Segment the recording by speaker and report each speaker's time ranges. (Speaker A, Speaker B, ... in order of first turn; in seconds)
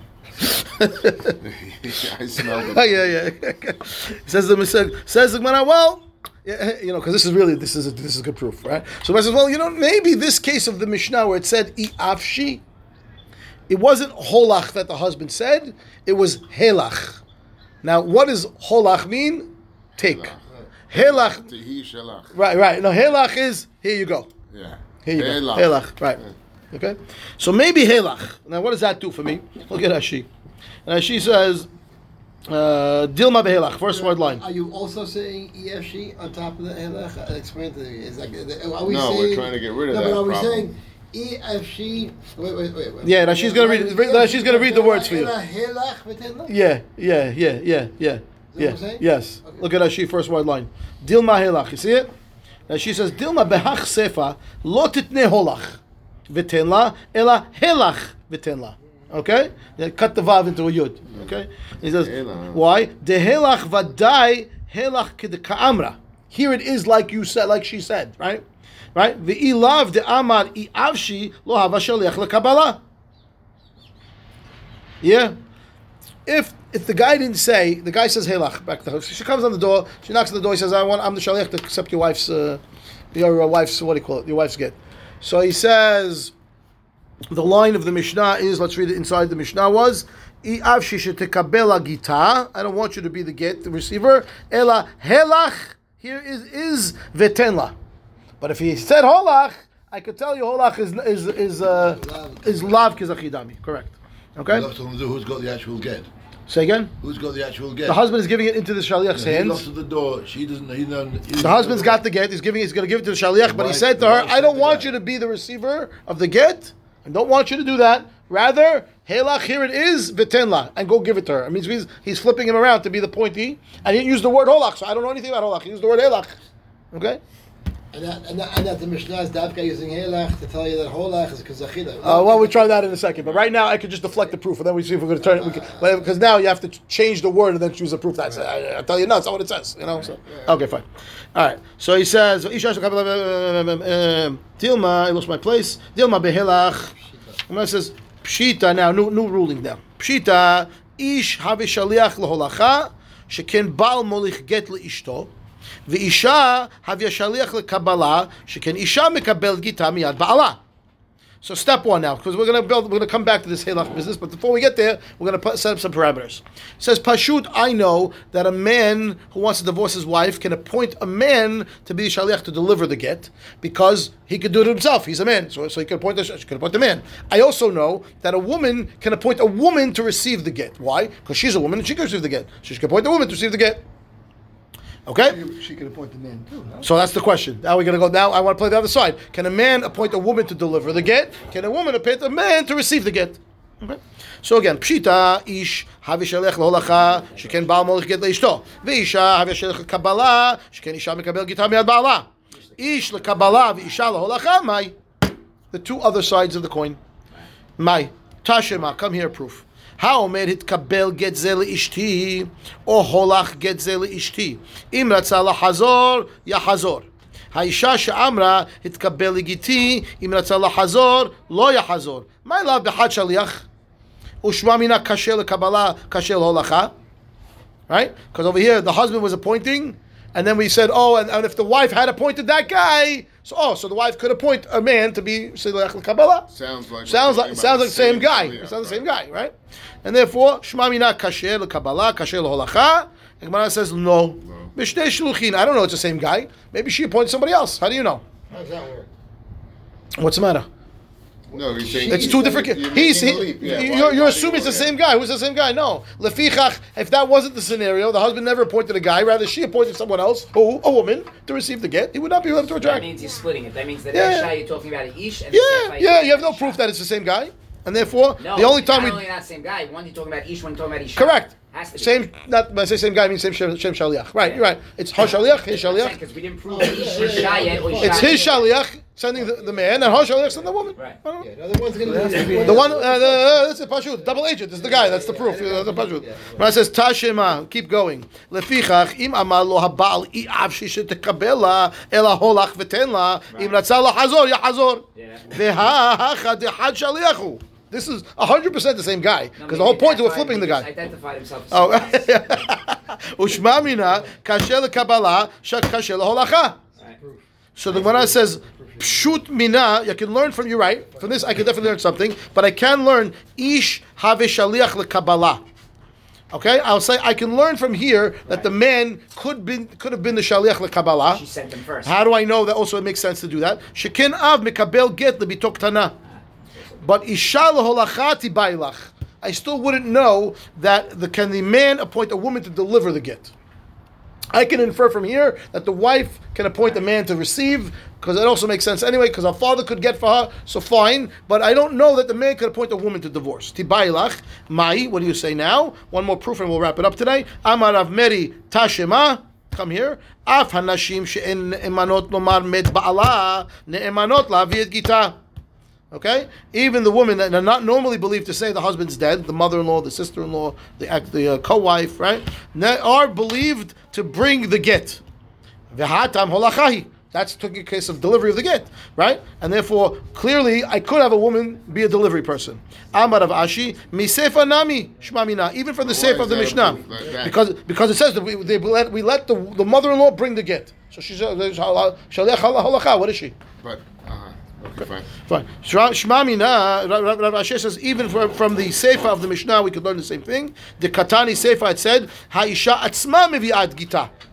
Speaker A: 0.4-1.4, 2.5-12.6, 13.7-17.2, 17.8-20.3, 20.9-21.4, 22.3-24.3, 25.1-26.2, 26.7-30.3, 30.9-31.7, 32.5-34.4, 43.0-45.4, 46.5-52.1, 52.7-68.4, 69.0-72.8, 75.0-75.4, 76.3-82.6, 83.1-86.3, 87.3-97.7, 98.4-104.7, 106.5-106.9, 107.8-109.6, 111.4-126.3, 126.9-127.2, 132.0-140.8, 141.3-146.9, 147.5-155.3, 155.9-160.6, 161.4-183.8, 185.1-185.4, 186.8-204.9, 205.7-207.0, 207.8-223.6, 224.4-226.9, 227.9-236.5, 237.1-248.2, 250.2-250.7, 252.0-263.1, 264.1-264.5, 265.5-269.2, 271.1-276.2, 276.8-281.4, 282.6-300.9, 301.7-306.8, 307.8-315.6, 316.5-321.4, 322.1-326.1, 327.0-333.5, 334.5-355.4, 356.1-365.2, 365.9-383.6, 385.5-394.3
Speaker B: 1.4-3.2, 20.0-20.4, 20.9-22.3, 24.5-26.3, 38.9-40.7, 62.0-62.6, 236.5-239.1, 244.4-244.7, 251.5-254.9, 376.0-377.6, 383.8-385.3
Speaker C: 33.9-46.5, 48.5-49.7, 101.8-102.7, 104.6-106.1, 107.0-107.9, 109.4-111.9, 113.5-114.9, 127.9-132.9, 135.2-136.1, 140.2-140.6, 147.0-147.4, 248.5-249.1, 251.5-252.7, 276.7-278.7, 279.4-279.7, 281.4-286.6, 307.1-309.1
Speaker D: 185.2-186.9, 282.0-282.9
Speaker E: 197.1-197.5, 202.6-204.0, 262.8-266.8, 268.4-272.1, 275.6-278.6, 293.5-293.8, 295.2-295.5, 299.6-302.4, 321.3-322.1, 326.7-327.0